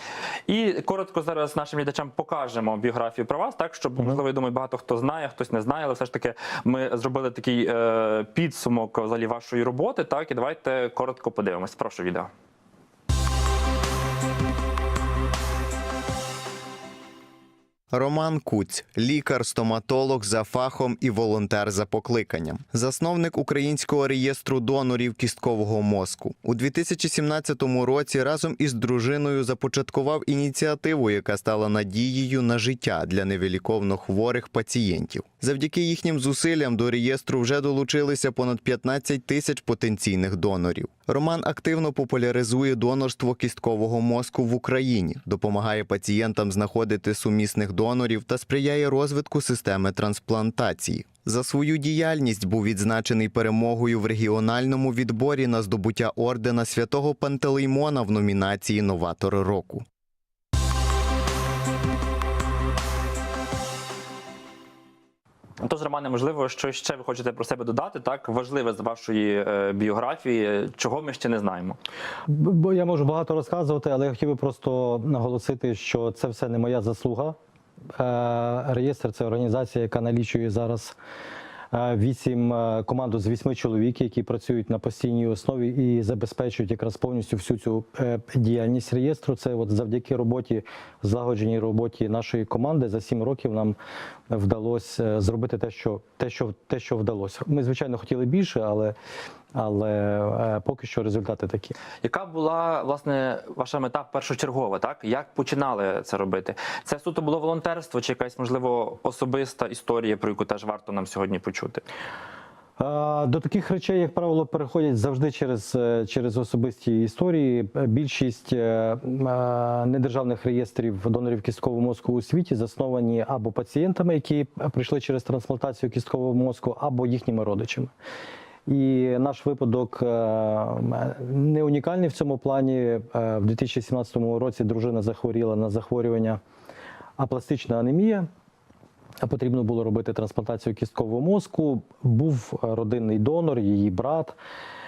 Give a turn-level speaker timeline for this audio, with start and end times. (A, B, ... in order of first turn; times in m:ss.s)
0:00.5-0:12.3 A
0:17.9-0:59.8 B
1:05.6-1:11.8 A
1:12.3-1:17.4 C
1:17.9-1:21.0 C
1:21.7-1:33.8 C
1:34.3-1:39.0 C
1:39.5-1:41.8 C
1:42.0-1:51.8 A
1:52.8-2:07.9 C
2:08.7-2:16.4 C
2:17.2-2:18.3 C
2:19.2-2:24.4 C